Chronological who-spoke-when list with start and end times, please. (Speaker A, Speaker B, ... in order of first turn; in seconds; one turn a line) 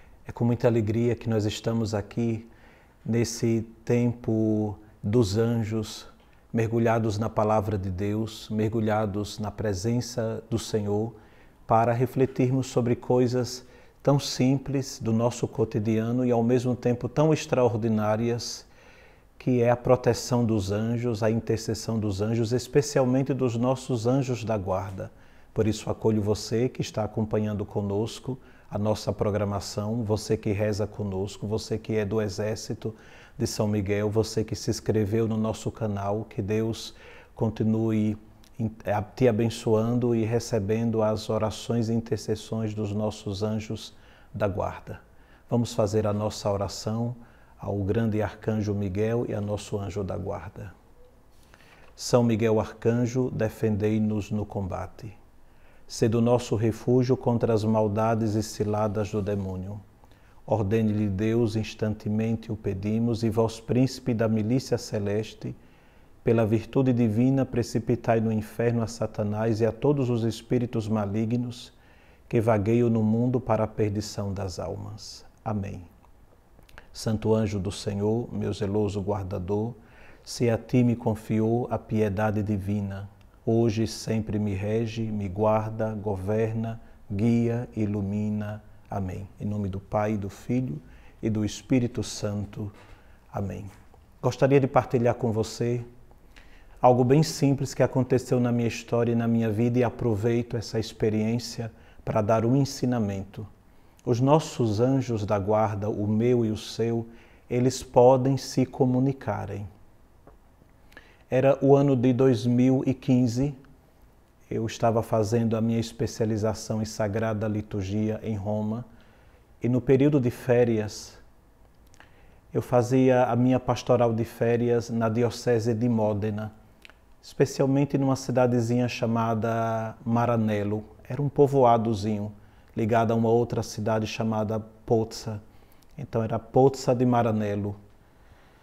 Speaker A: 0.2-2.5
Speaker A: 3.0-11.2
Speaker A: 11.7-18.7
Speaker A: 19.4-50.7
Speaker A: 52.0-55.2
Speaker A: 55.9-59.8
Speaker A: 60.5-65.6
Speaker A: 66.2-71.8
Speaker A: 72.3-75.9
Speaker A: 76.9-92.7
Speaker A: 93.3-95.9
Speaker A: 96.8-103.5
Speaker A: 104.0-109.7
Speaker A: 111.3-113.6
Speaker A: 114.5-118.9
Speaker A: 119.6-121.2
Speaker A: 122.5-126.5
Speaker A: 127.2-135.4
Speaker A: 136.0-137.8